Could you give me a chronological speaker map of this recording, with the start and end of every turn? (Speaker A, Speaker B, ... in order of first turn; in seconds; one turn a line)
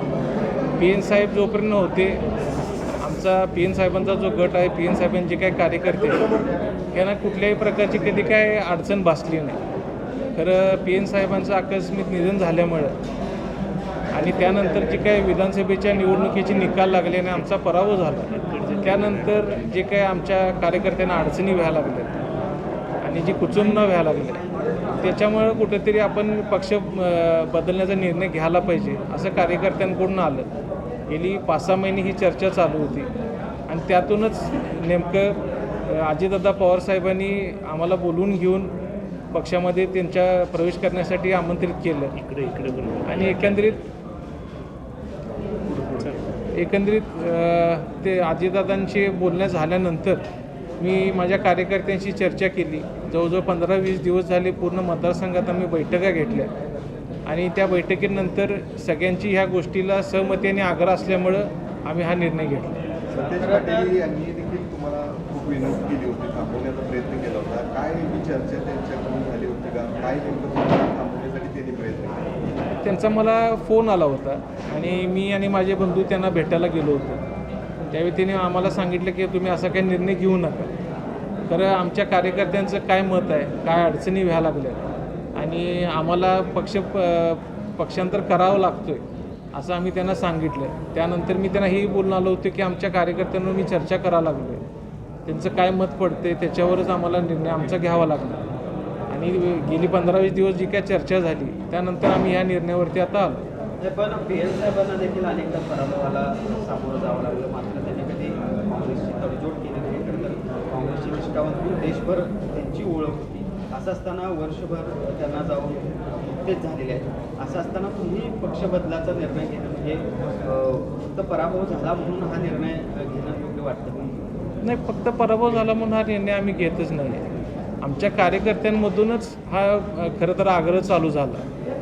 Speaker A: 0.8-2.2
Speaker A: 3.0-6.3
Speaker A: 6.9-9.6
Speaker A: 10.3-12.9
Speaker A: 14.1-22.2
Speaker B: 18.5-19.3
Speaker A: 23.0-24.4
Speaker A: 25.0-30.5
Speaker A: 31.1-33.1
Speaker A: 33.7-38.7
Speaker A: 39.3-42.1
Speaker B: 42.1-43.8
Speaker A: 43.0-43.8
Speaker B: 45.8-46.2
Speaker A: 46.6-50.2
Speaker A: 50.8-56.5
Speaker A: 57.3-62.8
Speaker C: 63.1-72.2
Speaker D: 63.2-63.9
Speaker A: 72.8-77.2
Speaker A: 77.9-80.7
Speaker A: 81.5-89.0
Speaker A: 89.5-94.6
Speaker A: 95.3-98.4
Speaker A: 99.1-103.4
Speaker D: 103.8-124.2
Speaker A: 124.6-127.2
Speaker A: 127.8-131.4